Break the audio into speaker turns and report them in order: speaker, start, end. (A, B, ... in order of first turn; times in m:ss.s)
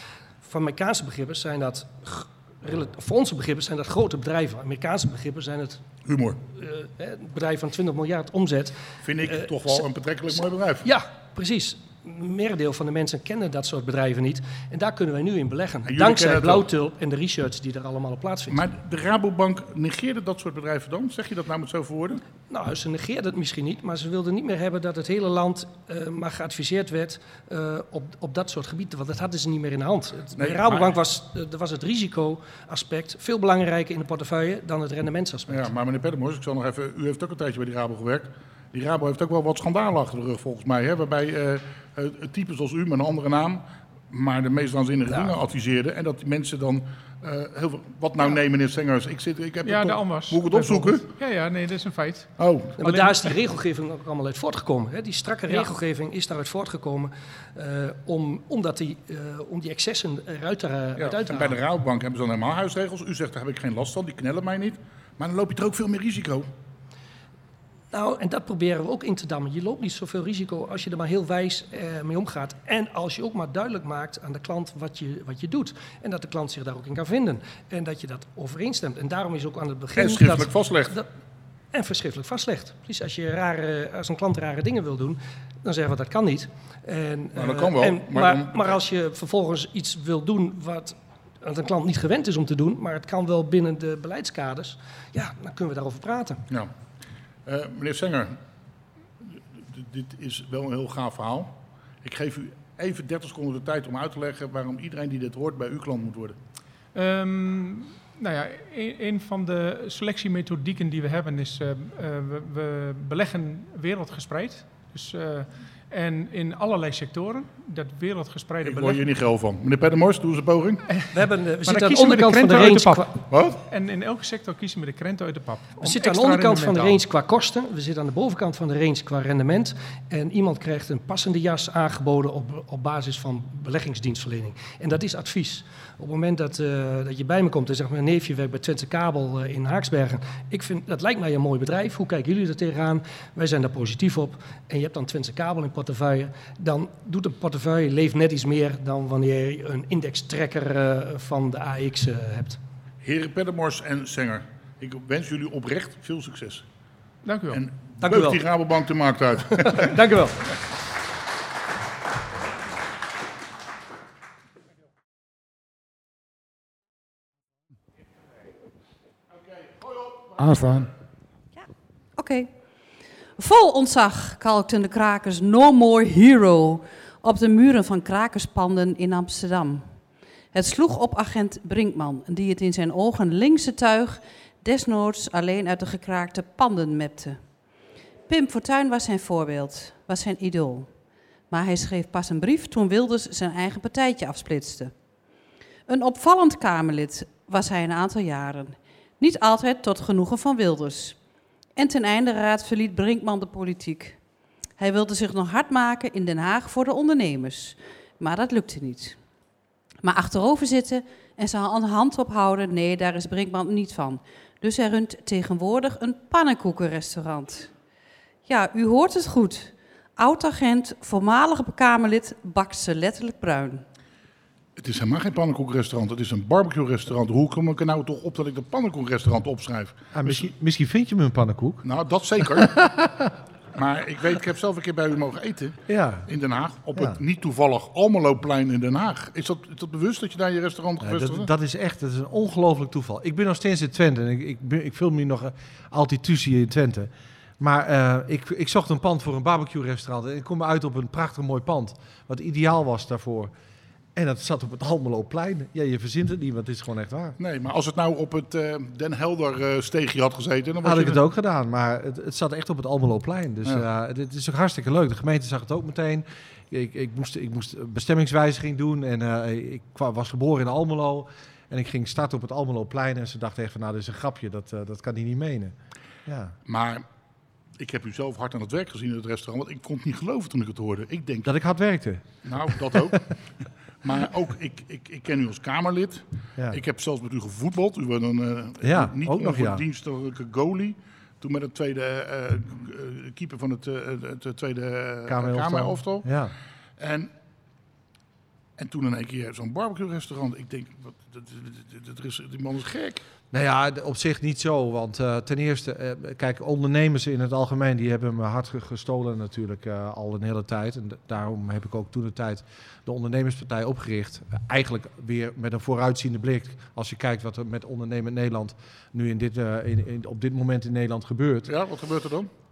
0:00.4-0:05.9 A
0:06.0-0:06.4 B
0:06.6-0:09.8 A
0:09.0-0:10.9 B
0:10.8-0:18.6 A
0:15.8-0:16.7 B
0:18.5-0:22.2 B
0:22.5-0:35.7 A
0:30.4-0:31.0 B
0:35.5-0:51.1 B
0:49.6-0:53.2 C
0:52.4-0:52.8 B
0:52.8-1:01.6 A
1:01.0-1:06.5 B
1:07.9-1:21.1 A
1:19.9-1:21.0 B
1:21.7-1:36.4 A
1:27.3-1:28.6 B
1:37.4-1:38.4 B
1:39.2-1:46.4 B
1:46.9-1:59.0 C
1:58.6-2:00.8 B
2:01.1-2:03.1 A
2:01.6-2:07.0 C
2:03.3-2:03.6 B
2:05.8-2:32.6 A
2:33.0-2:36.6 B
2:37.2-2:37.6 C
2:37.5-2:40.0 B
2:38.0-2:38.4 A
2:39.6-2:40.6 A
2:50.1-2:50.9 B
2:51.6-2:52.5 D
2:53.4-2:59.9 D
3:00.5-3:07.5 D
3:08.3-3:10.9 D
3:11.5-3:14.9 D
3:15.9-3:21.2 D
3:21.8-3:24.2 D
3:24.8-3:29.2 D
3:30.0-3:37.7 D
3:38.4-3:43.8 D
3:44.8-3:50.5 B
3:50.1-3:51.8 E
3:51.8-3:52.9 B
3:52.4-3:53.3 E
3:53.7-4:01.5 B
3:55.9-3:56.3 E
4:01.0-4:13.5 E
4:14.1-4:17.4 E
4:17.4-4:21.2 B
4:20.8-4:35.7 E
4:36.2-4:36.6 E
4:36.7-4:37.0 B
4:37.8-4:41.5 B
4:41.4-4:43.3 E
4:42.4-4:43.3 B
4:44.0-4:56.4 B
4:48.8-4:49.8 E
4:55.3-4:56.5 E
4:57.0-4:57.3 B
4:58.8-5:03.2 B
5:03.5-5:21.7 E
5:21.6-5:22.5 B